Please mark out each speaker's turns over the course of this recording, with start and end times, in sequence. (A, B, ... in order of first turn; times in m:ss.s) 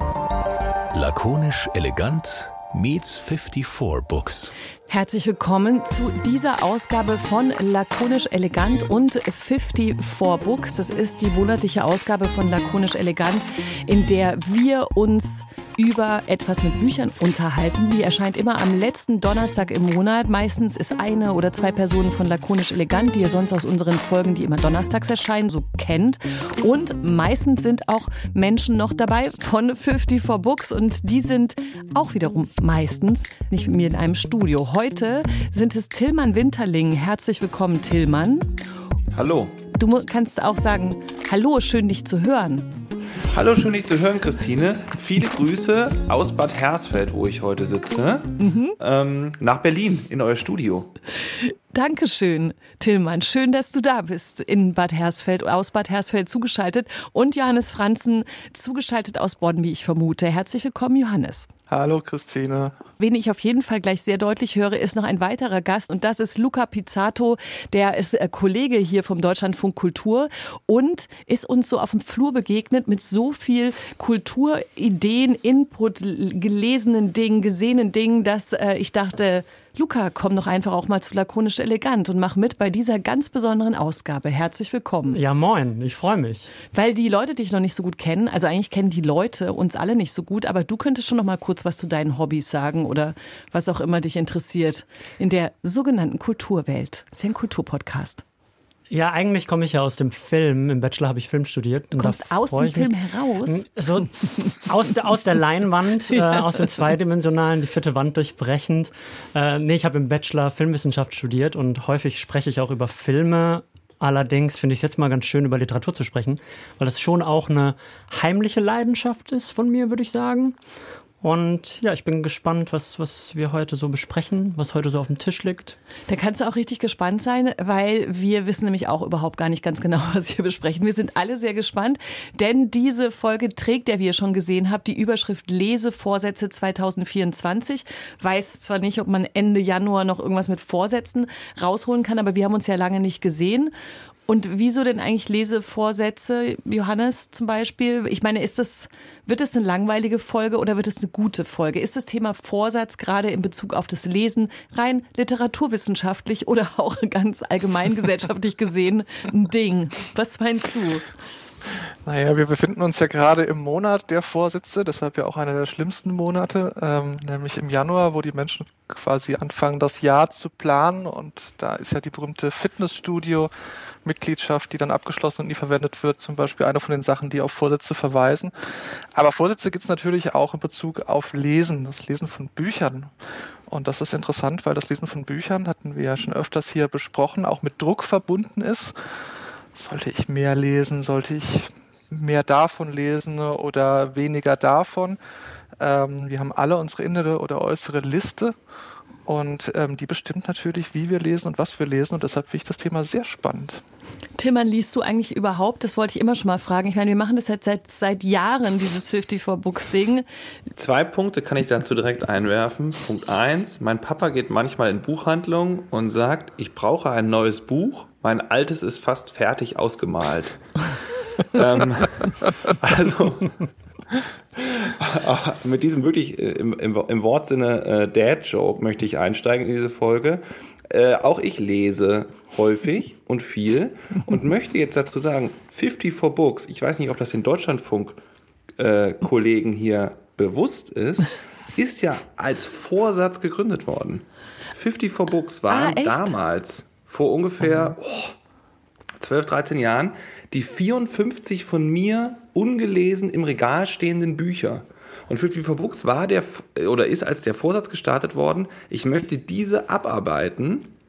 0:00.9-0:04.5 A
0:04.9-0:38.5 B
0:39.1-0:39.6 C
0:39.7-0:42.7 B
0:43.3-0:50.9 C
0:48.4-0:48.8 B
0:51.2-1:01.5 B
1:01.7-1:02.8 D
1:03.0-1:25.2 B
1:25.1-1:26.5 E
1:26.7-1:38.2 B
1:38.9-1:42.9 E
1:42.0-1:44.6 B
1:43.4-2:00.6 E
1:46.1-1:46.8 B
2:01.2-2:05.8 E
2:06.1-2:23.7 B
2:24.3-2:41.1 B
2:42.0-2:53.5 D
2:54.0-2:58.5 D
2:59.1-3:03.1 D
3:03.7-3:08.9 D
3:09.8-3:15.2 D
3:15.8-3:18.5 D
3:19.2-3:23.8 D
3:24.4-3:30.2 B
3:30.8-3:40.6 C
3:41.4-3:43.6 C
3:44.6-3:58.2 C
3:58.8-4:08.3 C
4:05.7-4:06.4 B
4:09.2-4:20.9 C